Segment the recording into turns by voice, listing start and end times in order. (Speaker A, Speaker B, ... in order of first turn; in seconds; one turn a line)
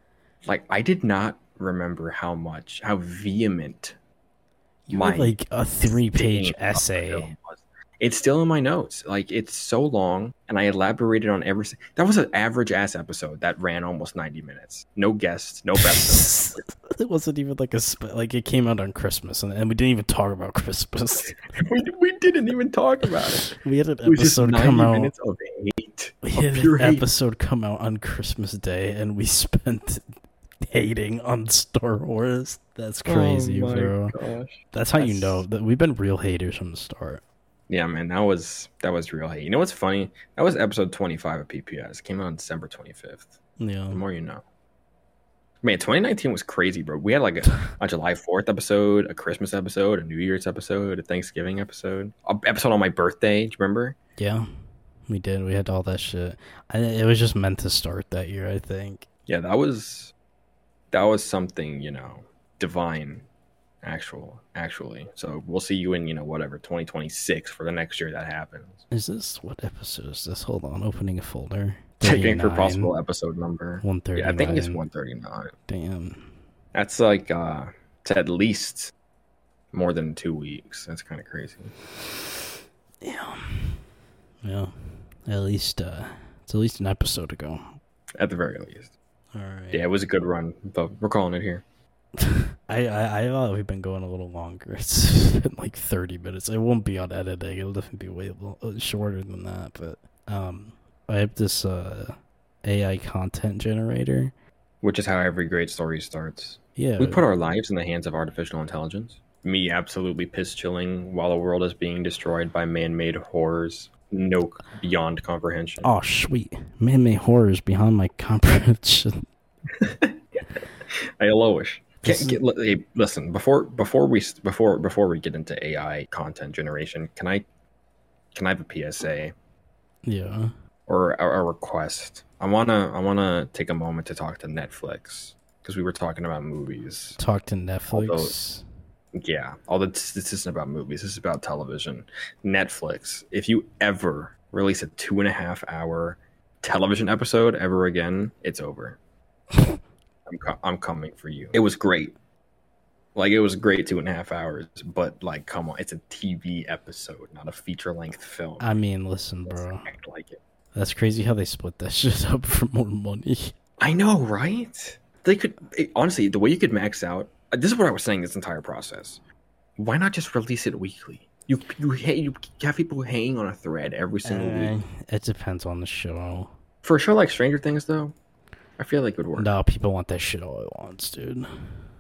Speaker A: 0.4-4.0
Speaker B: 4.9-7.3
Speaker A: 4.9-16.4
Speaker B: 15.8-21.3
Speaker A: 21.2-27.1
Speaker B: 23.4-25.1
Speaker B: 26.2-30.0
Speaker B: 30.6-34.1
Speaker A: 33.0-35.4
Speaker B: 34.7-37.2
Speaker A: 37.7-43.3
Speaker B: 43.6-44.0
Speaker A: 43.9-44.4
Speaker A: 45.6-54.0
Speaker B: 54.2-54.4
Speaker B: 55.1-59.0
Speaker A: 59.3-60.1
Speaker A: 60.9-63.2
Speaker A: 63.8-68.8
Speaker B: 68.9-72.9
Speaker A: 72.0-75.5
Speaker B: 73.8-74.8
Speaker B: 75.7-76.3
Speaker A: 76.7-78.9
Speaker A: 79.7-81.7
Speaker B: 83.0-83.8
Speaker B: 84.4-84.7
Speaker B: 85.2-87.7
Speaker A: 88.2-88.9
Speaker B: 89.3-89.9
Speaker A: 89.7-91.6
Speaker B: 92.2-104.3
Speaker A: 104.8-115.9
Speaker B: 106.8-107.2
Speaker B: 115.8-119.2
Speaker A: 119.8-120.2
Speaker A: 120.9-127.5
Speaker B: 122.0-122.4
Speaker A: 128.3-129.3
Speaker B: 130.1-130.5
Speaker A: 130.9-137.2
Speaker B: 137.2-138.6
Speaker A: 137.9-138.3
Speaker A: 139.1-149.0
Speaker A: 150.3-152.1
Speaker A: 153.1-158.7
Speaker B: 158.6-159.9
Speaker A: 159.5-160.4
Speaker B: 160.7-163.5
Speaker A: 163.8-169.2
Speaker A: 169.8-174.7
Speaker B: 174.2-176.5
Speaker A: 176.8-178.1
Speaker A: 178.8-179.5
Speaker B: 179.4-181.5